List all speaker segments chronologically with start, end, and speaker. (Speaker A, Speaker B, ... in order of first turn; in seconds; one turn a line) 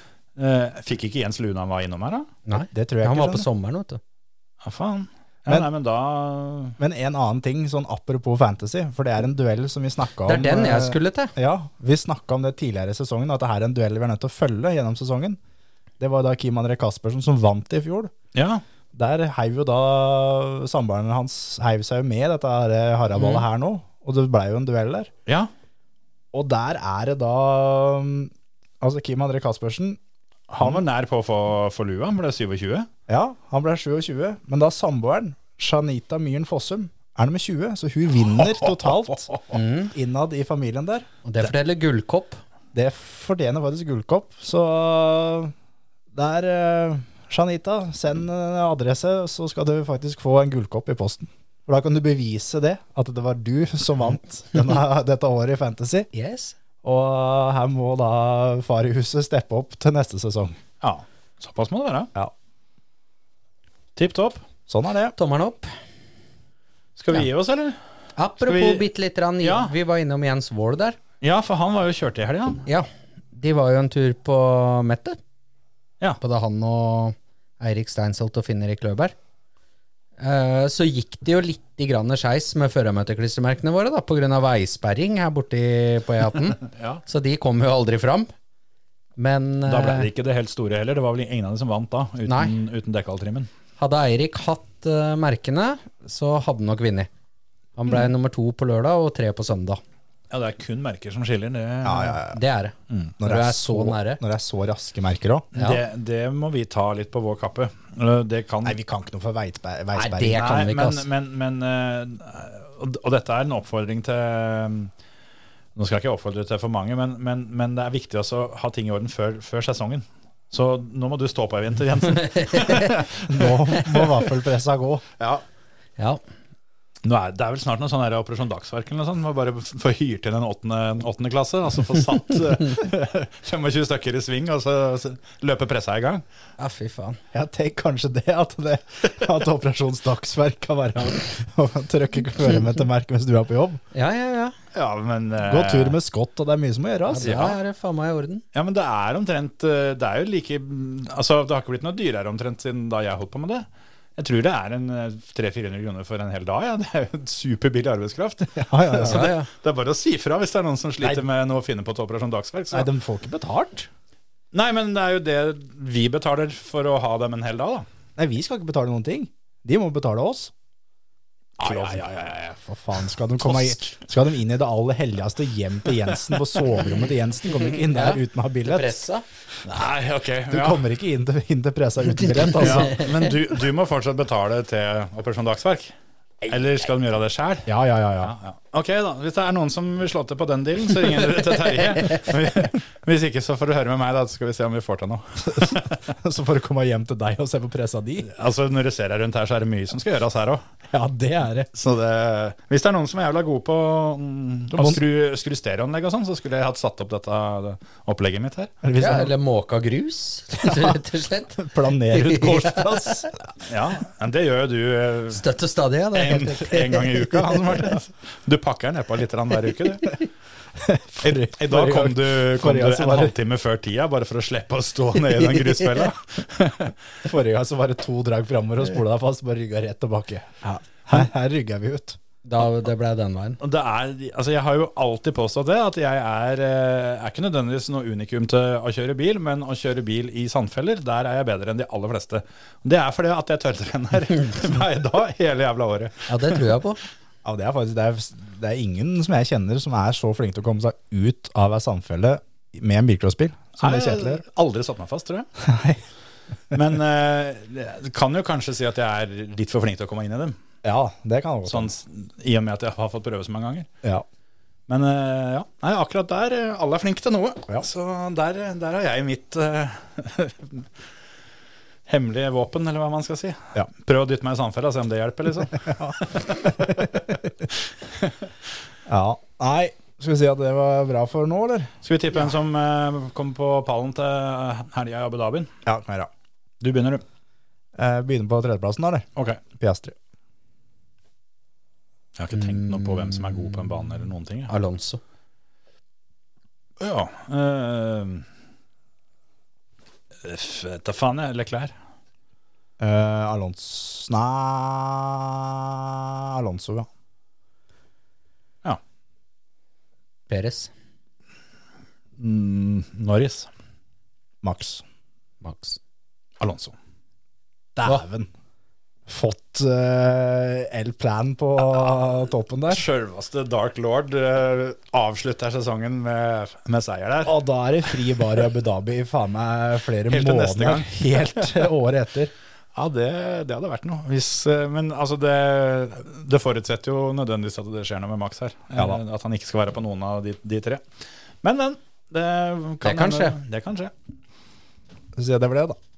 Speaker A: 0.4-2.3
Speaker B: 2.5-4.0
Speaker C: 2.6-3.5
Speaker A: 4.6-6.8
Speaker C: 6.8-15.4
Speaker B: 10.2-11.3
Speaker C: 16.0-18.1
Speaker A: 18.3-18.6
Speaker C: 18.9-25.1
Speaker A: 25.3-25.5
Speaker C: 26.3-30.0
Speaker A: 30.5-32.9
Speaker C: 33.1-39.3
Speaker A: 38.2-39.5
Speaker B: 39.5-39.9
Speaker C: 39.9-41.1
Speaker B: 41.2-42.4
Speaker C: 42.7-45.5
Speaker C: 46.1-56.1
Speaker B: 56.1-56.5
Speaker C: 56.8-60.6
Speaker A: 60.8-62.1
Speaker A: 64.0-64.4
Speaker C: 64.7-65.1
Speaker B: 65.2-65.7
Speaker A: 67.0-67.8
Speaker B: 68.2-71.0
Speaker A: 68.4-68.8
Speaker A: 69.4-69.7
Speaker A: 71.2-72.7
Speaker B: 72.7-75.2
Speaker B: 76.2-79.1
Speaker B: 80.2-88.3
Speaker A: 86.7-87.0
Speaker B: 89.2-90.1
Speaker A: 89.7-93.5
Speaker B: 92.3-92.5
Speaker B: 93.8-97.1
Speaker B: 97.8-99.8
Speaker A: 100.3-102.2
Speaker C: 101.8-102.4
Speaker B: 102.0-104.2
Speaker C: 103.2-105.5
Speaker B: 105.5-105.8
Speaker A: 105.5-108.8
Speaker C: 108.6-110.6
Speaker B: 109.9-111.1
Speaker A: 110.3-114.9
Speaker A: 115.8-124.1
Speaker B: 122.3-123.0
Speaker C: 123.3-125.0
Speaker A: 127.0-136.2
Speaker B: 136.6-137.2
Speaker C: 137.3-143.8
Speaker B: 143.9-144.6
Speaker A: 144.7-146.0
Speaker C: 145.4-147.4
Speaker B: 147.1-148.4
Speaker A: 147.2-147.6
Speaker A: 148.5-153.7
Speaker A: 154.2-162.9
Speaker C: 158.6-159.3
Speaker B: 159.0-159.5
Speaker C: 162.7-163.9
Speaker A: 164.5-167.9
Speaker C: 168.2-170.5
Speaker C: 171.6-172.1
Speaker A: 171.6-173.9
Speaker C: 172.7-178.9
Speaker B: 177.8-179.2
Speaker A: 179.6-180.9
Speaker C: 180.5-183.0
Speaker B: 182.4-183.1
Speaker A: 182.6-185.9
Speaker A: 186.5-196.0
Speaker C: 187.7-188.3
Speaker C: 195.5-198.3
Speaker A: 198.3-200.6
Speaker C: 200.9-201.7
Speaker A: 201.7-208.7
Speaker C: 204.7-205.0
Speaker C: 208.8-209.3
Speaker B: 209.0-213.3
Speaker C: 210.6-211.0
Speaker C: 211.5-213.4
Speaker A: 213.7-215.4
Speaker B: 215.3-217.8
Speaker A: 216.1-220.2
Speaker C: 220.8-223.3
Speaker A: 221.2-226.9
Speaker C: 227.2-232.2
Speaker B: 232.4-233.6
Speaker A: 233.6-246.6
Speaker B: 246.3-247.0
Speaker C: 247.4-254.4
Speaker A: 253.8-255.5
Speaker C: 255.6-256.0
Speaker A: 256.7-260.6
Speaker C: 260.8-261.9
Speaker A: 261.6-263.9
Speaker A: 264.9-270.9
Speaker A: 272.1-277.2
Speaker C: 275.8-277.4
Speaker C: 279.1-281.9
Speaker A: 282.0-285.7
Speaker C: 285.9-286.3
Speaker A: 286.8-287.2
Speaker C: 287.9-289.3
Speaker C: 289.8-290.1
Speaker A: 292.4-294.7
Speaker B: 292.8-293.4
Speaker B: 294.7-295.2
Speaker A: 297.0-298.4
Speaker A: 300.4-301.9
Speaker C: 303.0-307.1
Speaker B: 310.5-310.9
Speaker A: 312.4-313.7
Speaker C: 314.6-315.0
Speaker B: 315.6-316.0
Speaker A: 316.6-316.9
Speaker C: 317.9-318.5
Speaker C: 319.3-323.1
Speaker A: 322.9-328.4
Speaker C: 327.4-332.5
Speaker A: 330.3-331.9
Speaker A: 332.9-341.0
Speaker A: 341.6-344.1
Speaker B: 343.0-343.6
Speaker C: 345.4-346.0